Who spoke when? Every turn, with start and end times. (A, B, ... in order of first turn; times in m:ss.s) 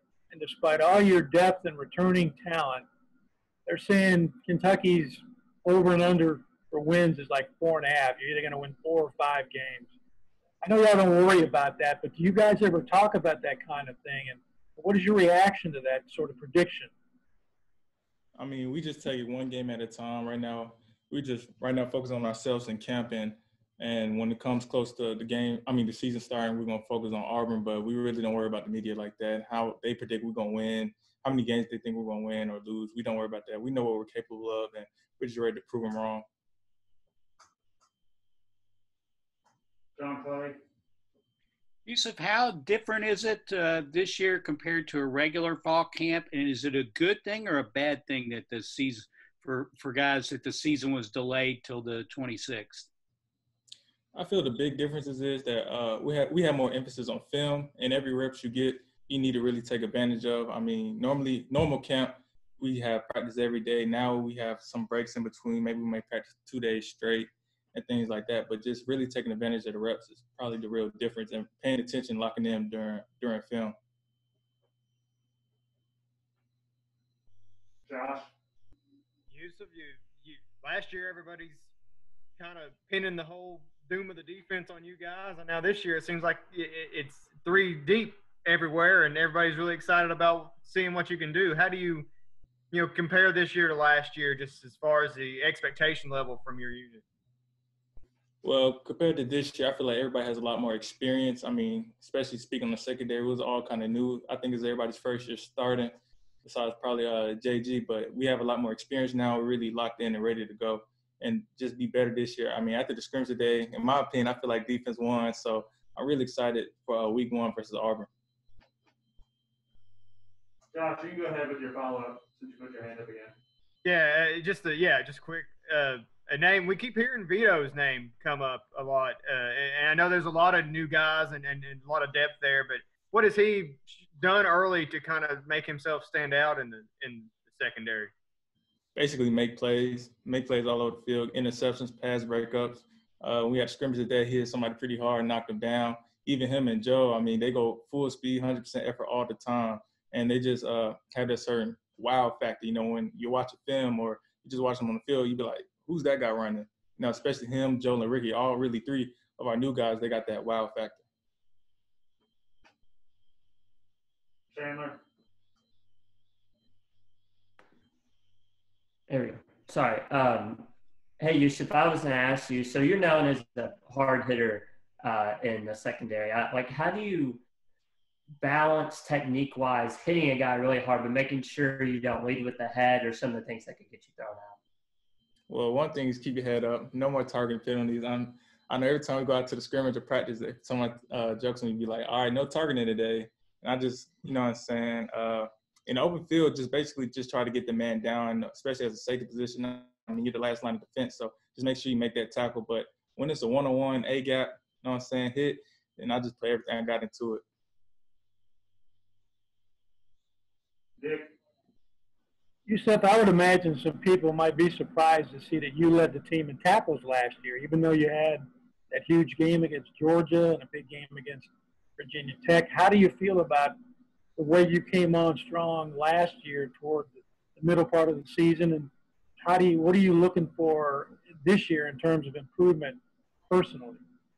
0:00.3-0:02.8 A
0:03.7-0:09.9 A
0:10.6-0:16.9 A
0:18.4-0:36.2 B
0:40.0-0:40.6 C
0:41.9-0:52.9 D
0:54.2-1:13.8 B
1:17.9-1:18.3 C
1:19.3-1:21.7 E
1:22.4-1:32.1 E
1:32.7-1:37.0 E
1:38.4-1:58.1 B
2:00.7-2:03.3 C
2:03.8-2:18.1 E
2:19.0-2:41.0 B
2:44.5-2:45.0 C
2:49.1-2:50.7 F
2:51.2-2:57.4 F
2:58.4-3:04.6 F
3:05.5-3:27.4 B
3:31.0-3:31.3 C
3:32.7-3:43.8 A
3:44.4-3:54.0 A